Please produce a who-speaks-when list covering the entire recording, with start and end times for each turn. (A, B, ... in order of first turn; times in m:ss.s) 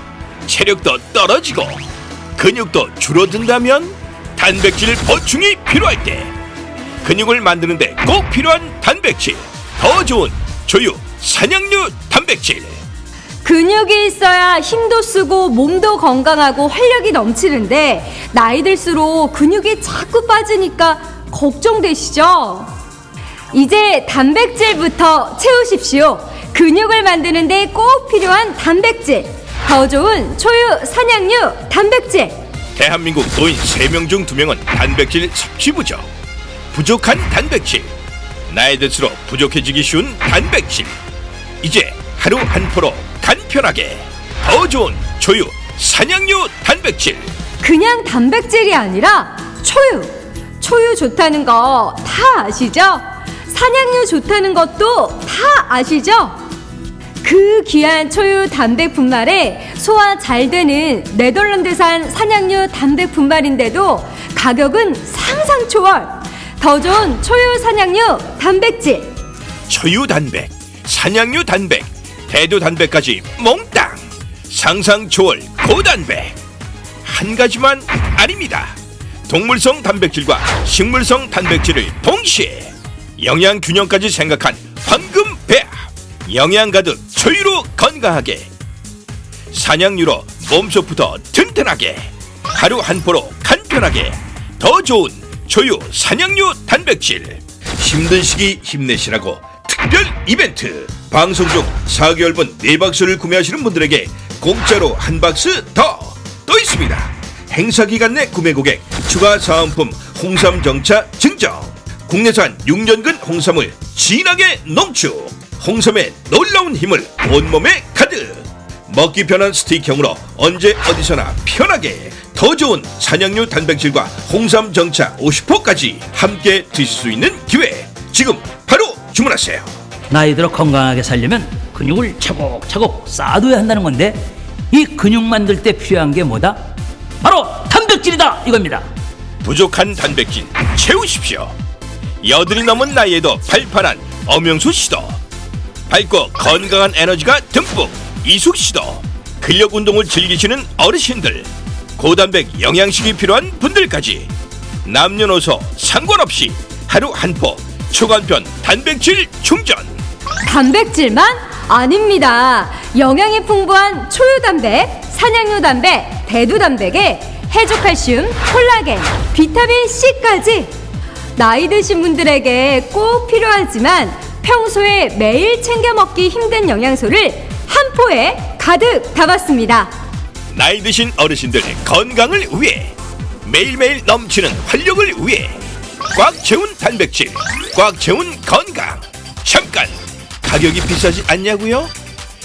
0:00.5-0:01.8 A
0:02.4-0:06.3 A
0:07.0-0:12.8 A
0:13.4-0:22.7 B
0:23.5-0:32.4 B
0:32.8-0:36.1 A
0:36.7-0:37.9 A
0:38.5-0:40.9 A
0:41.6-0:47.3 A
0:47.6-0:56.4 B
0:57.2-1:09.1 B
1:09.7-1:16.4 A
1:17.0-1:28.5 A
1:29.5-2:09.7 A
2:10.1-2:16.6 C
2:17.2-2:18.8 C
2:19.4-2:21.6 A
2:22.2-2:25.2 A
2:25.9-2:34.3 A
2:34.8-2:40.0 A
2:40.4-2:50.7 B
2:51.4-2:59.9 B
3:00.5-3:05.6 A
3:06.1-3:11.9 A